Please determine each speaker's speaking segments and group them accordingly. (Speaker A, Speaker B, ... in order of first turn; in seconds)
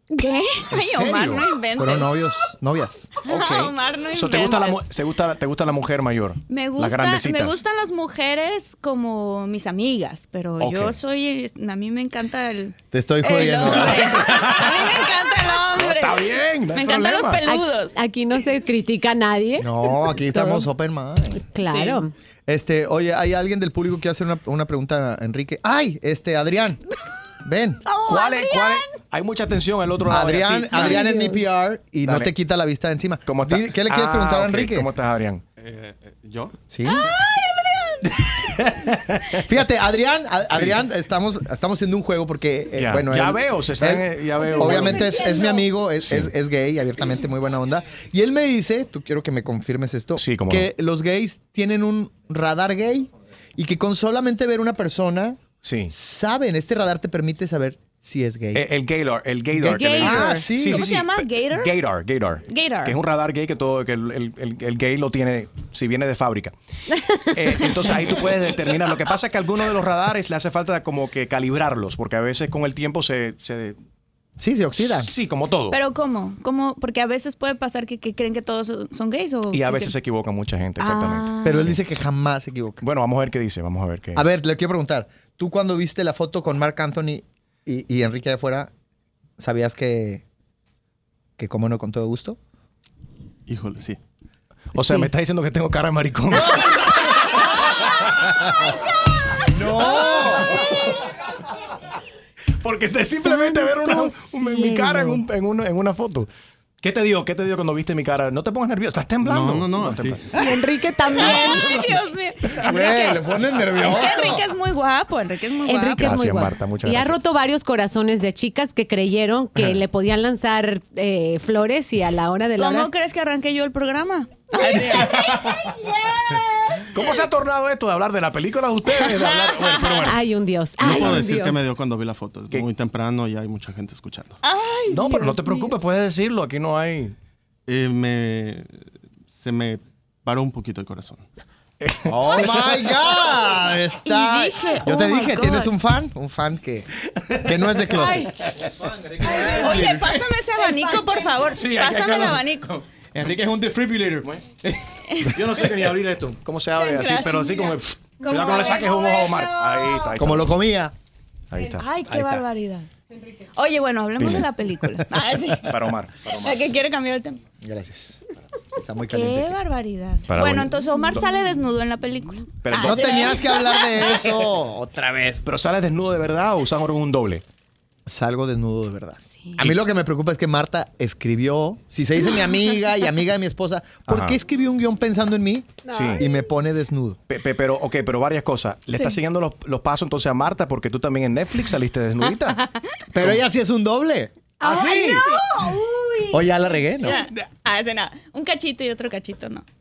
Speaker A: 0.1-2.2, 3.2-4.8, 6.5-17.9, 21.6-22.0, 60.2-61.7, 62.5-63.0, 75.7-79.9, 80.8-81.7, 111.1-116.1, 122.6-127.2, 128.9-130.1, 134.4-135.7, 142.3-142.5, 144.0-145.7, 149.3-152.8, 155.1-155.4, 156.8-160.1, 161.7-162.9, 163.5-165.8, 166.3-167.4, 169.1-174.2, 179.3-179.6, 192.5-192.8, 194.7-195.6, 197.0-199.6
Speaker B: 0.7-1.5, 3.2-7.6, 10.6-10.9, 13.6-15.1, 15.7-17.4, 28.1-31.0, 32.0-32.3, 33.2-35.4, 38.2-39.5, 42.7-45.1, 46.0-46.3, 50.2-50.7, 55.6-55.9, 58.5-66.5, 67.2-73.8, 74.8-75.8, 79.5-81.8, 82.8-84.2, 94.7-97.5, 100.5-101.0, 102.6-106.3, 106.8-110.2, 116.0-117.2, 124.6-125.8, 126.8-130.2, 130.9-131.1, 134.9-137.1, 141.8-143.1, 151.4-152.4, 155.2-160.5, 161.5-161.8, 164.2-164.5, 165.7-166.6, 170.3-171.2, 172.6-173.4, 174.0-174.2, 175.4-177.4, 184.1-184.4, 185.9-186.2, 187.3-192.6, 193.2-193.4, 194.6-195.2
Speaker C: 1.8-3.1, 12.9-14.2, 19.6-21.4, 22.5-26.8, 27.4-27.8, 30.1-34.9, 36.7-37.1, 39.5-58.6, 59.9-60.9, 74.4-75.1, 81.4-82.8, 84.1-88.7, 89.4-90.2, 91.4-92.4, 99.5-100.7, 112.5-114.5, 142.1-150.2, 153.1-155.5, 160.2-160.9, 162.1-162.4, 167.6-169.6, 172.7-175.4, 178.1-187.2, 193.1-194.3, 196.3-197.2
Speaker D: 17.4-20.7, 21.5-22.1, 27.9-28.6, 30.8-31.4, 37.1-38.0, 59.6-60.2, 103.2-105.2, 110.3-111.7, 115.7-122.9, 130.1-131.6, 185.8-186.2, 194.6-196.4
Speaker E: 35.6-36.6, 93.5-94.0, 109.2-110.3, 130.8-134.4, 137.7-141.2